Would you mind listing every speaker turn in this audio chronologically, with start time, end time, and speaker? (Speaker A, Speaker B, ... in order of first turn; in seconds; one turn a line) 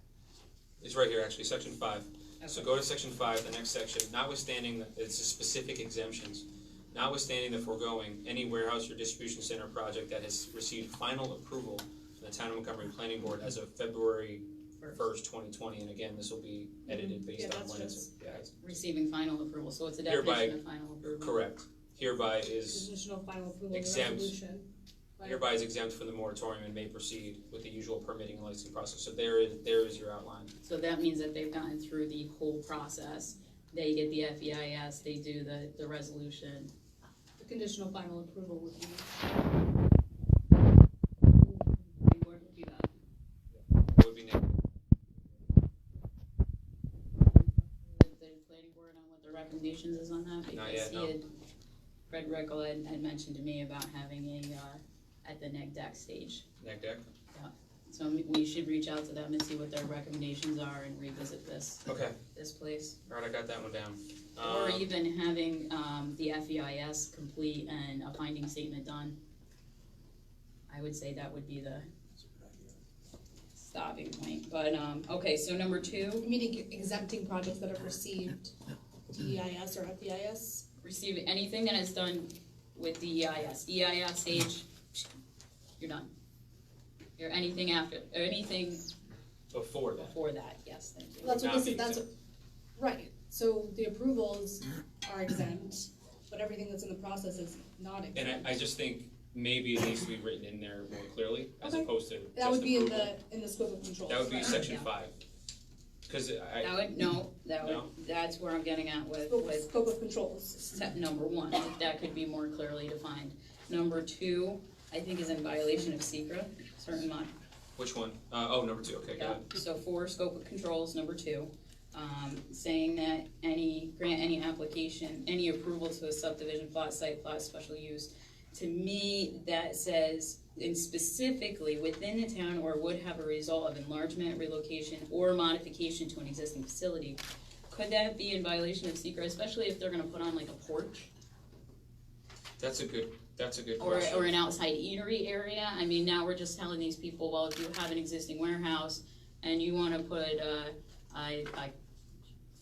Speaker A: 0.8-18.5
Speaker B: 16.9-18.1
Speaker C: 18.6-21.4
Speaker A: 20.1-22.9
Speaker B: 22.7-24.7
Speaker A: 23.7-24.4
Speaker B: 25.2-25.4
Speaker A: 25.2-30.5
Speaker C: 30.6-36.7
Speaker B: 37.4-39.1
Speaker B: 41.4-42.9
Speaker A: 43.5-44.7
Speaker C: 47.2-51.3
Speaker A: 50.5-51.1
Speaker C: 52.1-56.4
Speaker A: 56.6-57.1
Speaker C: 57.3-63.0
Speaker A: 61.9-62.2
Speaker A: 63.1-64.9
Speaker C: 64.4-69.2
Speaker C: 70.7-71.8
Speaker C: 73.5-76.3
Speaker B: 76.2-78.5
Speaker B: 79.1-80.6
Speaker C: 80.8-85.0
Speaker C: 85.8-86.1
Speaker C: 87.2-88.9
Speaker A: 89.5-90.1
Speaker C: 90.0-91.4
Speaker B: 91.2-92.1
Speaker A: 91.3-92.0
Speaker B: 92.8-98.5
Speaker A: 98.1-103.1
Speaker B: 101.6-104.6
Speaker A: 104.0-105.1
Speaker C: 104.3-104.9
Speaker A: 106.1-106.8
Speaker C: 106.6-109.7
Speaker A: 107.6-107.9
Speaker B: 109.3-110.8
Speaker C: 110.7-117.3
Speaker A: 117.8-119.5
Speaker C: 119.1-137.2
Speaker C: 137.7-141.1
Speaker A: 142.6-144.4
Speaker C: 143.8-151.7